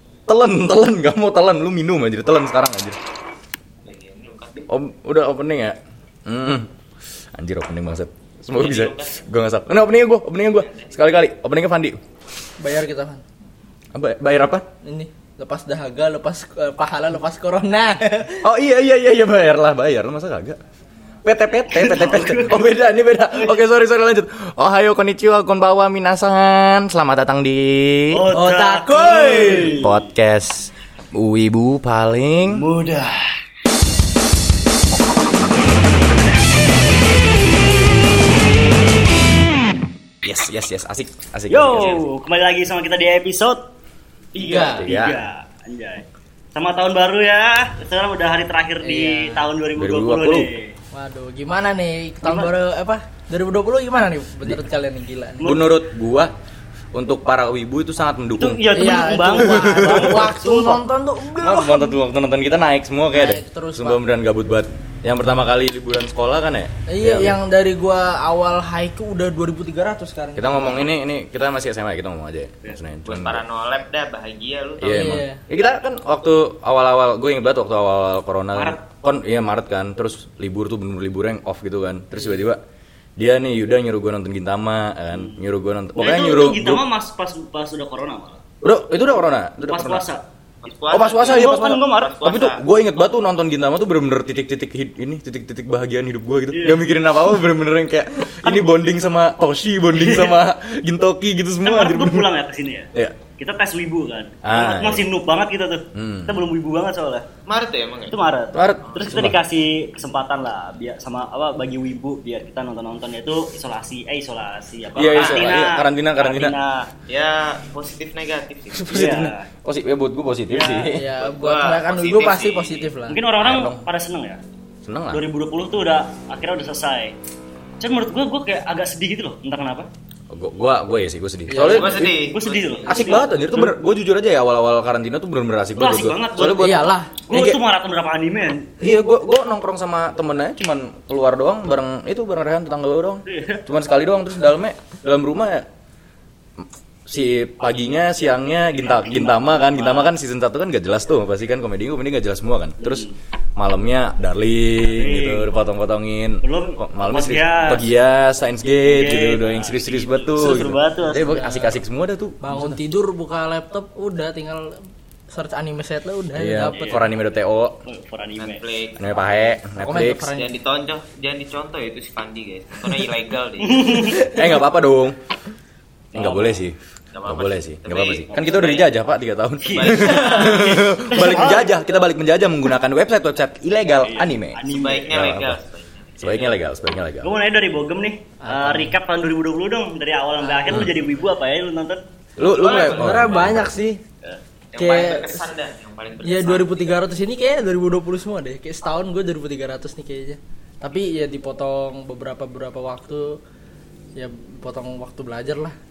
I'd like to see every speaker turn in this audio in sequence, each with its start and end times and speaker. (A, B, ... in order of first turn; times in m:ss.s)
0:00.3-0:03.0 A
0:03.8-0:04.7 B
0:04.7-0:06.7 A
0:07.3-0:12.0 A
0:08.5-0:09.2 B
0:10.6-0:11.0 B
0:12.6-0:13.2 C
0:13.9-0:14.6 A
0:14.8-0:18.5 C
0:18.4-0:20.6 A
0:21.2-0:28.3 A
0:21.8-0:22.6 D
0:28.1-0:29.9 D
0:28.3-0:29.9 C
0:29.0-0:32.6 A
0:32.5-0:33.4 D
0:40.2-0:42.0 A
0:41.5-0:43.6 D
0:44.3-0:50.7 D
0:44.4-0:44.8 C
0:44.6-0:45.2 A
0:48.8-0:49.5 C
0:49.8-0:50.5 A
0:50.9-0:55.6 C
0:52.2-0:52.5 D
0:55.4-0:55.7 D
0:55.4-0:56.3 A
0:56.9-0:58.6 A
0:58.4-1:00.8 D
0:58.7-1:01.9 C
0:59.3-1:00.3 A
1:01.4-1:07.4 A
1:03.1-1:04.0 C
1:06.9-1:10.9 C
1:10.4-1:13.4 A
1:13.0-1:15.2 B
1:14.8-1:22.6 A
1:14.9-1:15.4 C
1:18.5-1:18.8 D
1:23.2-1:26.8 A
1:26.0-1:28.4 D
1:28.6-1:30.0 A
1:29.6-1:30.2 D
1:30.6-1:32.6 B
1:30.9-1:42.3 A
1:31.2-1:32.2 D
1:36.5-1:36.8 D
1:38.4-1:38.7 D
1:39.9-1:40.4 D
1:41.6-1:47.2 D
1:44.4-1:45.1 A
1:45.9-1:46.3 A
1:47.4-1:48.2 B
1:48.1-1:56.9 D
1:48.5-1:49.4 A
1:48.8-1:49.2 B
1:55.0-1:56.5 A
1:55.1-1:55.5 B
1:57.1-1:58.9 B
1:58.8-2:01.0 A
1:58.9-1:59.5 D
2:00.5-2:00.8 D
2:00.8-2:03.2 C
2:01.2-2:02.9 B
2:03.1-2:04.4 D
2:03.4-2:03.8 A
2:04.8-2:05.2 A
2:05.1-2:07.1 D
2:07.8-2:09.9 D
2:10.3-2:12.1 A
2:11.5-2:12.1 C
2:11.6-2:13.2 B
2:12.1-2:13.7 D
2:12.8-2:16.9 A
2:15.8-2:18.7 D
2:16.4-2:17.6 C
2:18.8-2:25.6 A
2:23.3-2:23.6 D
2:26.6-2:33.0 A
2:28.7-2:30.1 D
2:32.8-2:33.1 D
2:33.6-2:42.8 A
2:34.9-2:35.5 D
2:36.4-2:37.8 D
2:38.8-2:41.6 D
2:41.1-2:41.7 C
2:42.4-2:44.8 C
2:45.3-2:47.0 C
2:46.3-2:47.8 A
2:46.7-2:47.1 D
2:47.8-2:48.6 D
2:48.4-2:49.4 B
2:49.0-2:50.3 A
2:49.8-2:50.5 C
2:50.2-2:54.2 B
2:53.6-2:54.2 D
2:54.0-2:55.2 A
2:56.1-2:56.7 A
2:56.2-2:56.4 D
2:57.1-2:58.9 B
2:57.2-3:05.6 A
2:59.6-3:01.7 D
2:59.6-3:00.8 B
3:04.0-3:05.2 D
3:04.6-3:06.5 B
3:06.2-3:07.3 A
3:07.2-3:12.0 D
3:08.4-3:08.9 C
3:10.4-3:10.9 C
3:12.4-3:13.7 A
3:12.4-3:13.7 B
3:12.7-3:14.0 C
3:14.7-3:17.0 B
3:14.8-3:15.4 C
3:16.2-3:23.4 C
3:24.2-3:25.7 C